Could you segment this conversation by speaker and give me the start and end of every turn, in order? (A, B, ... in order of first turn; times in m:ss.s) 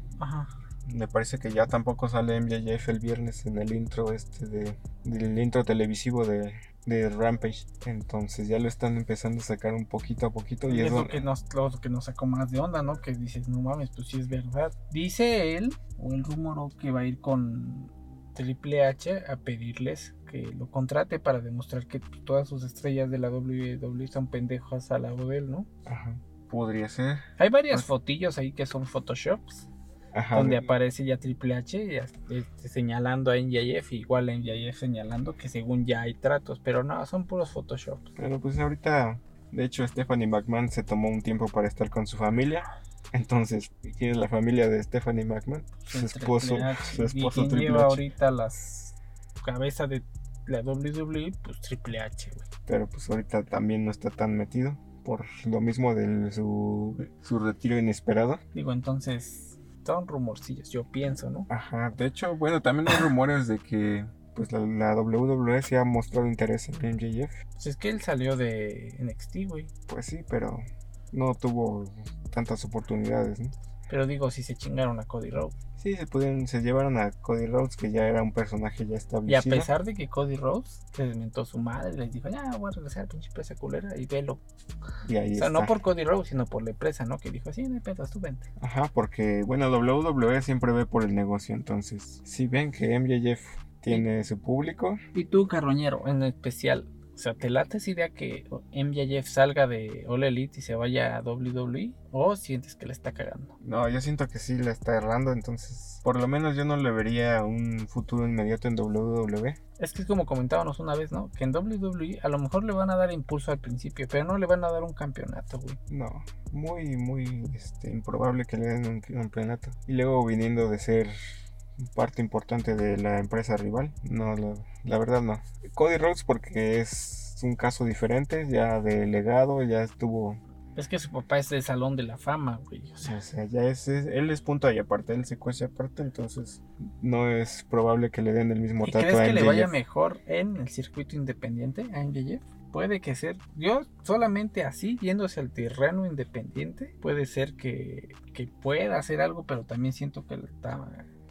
0:00.2-0:00.5 A
0:00.8-0:11.2 B
0:10.6-0:25.7 A
0:25.8-0:27.8 B
0:27.4-0:29.7 A
0:30.1-0:30.7 B
0:30.3-0:38.1 A
0:38.2-0:48.0 B
0:45.8-0:52.4 A
0:52.6-0:58.4 B
0:58.5-1:01.5 A
1:01.5-1:07.4 B
1:07.6-1:09.7 A
1:09.9-1:13.5 B
1:13.9-1:15.5 A
1:15.8-1:19.7 B
1:19.3-1:24.4 A
1:25.0-1:25.7 B
1:25.4-1:28.5 A
1:28.6-1:35.0 B
1:35.1-1:43.5 A
1:43.6-1:49.6 B
1:49.8-1:55.8 A
1:55.9-2:10.4 B
2:10.8-2:13.2 A
2:13.0-2:19.8 B
2:18.8-2:31.0 A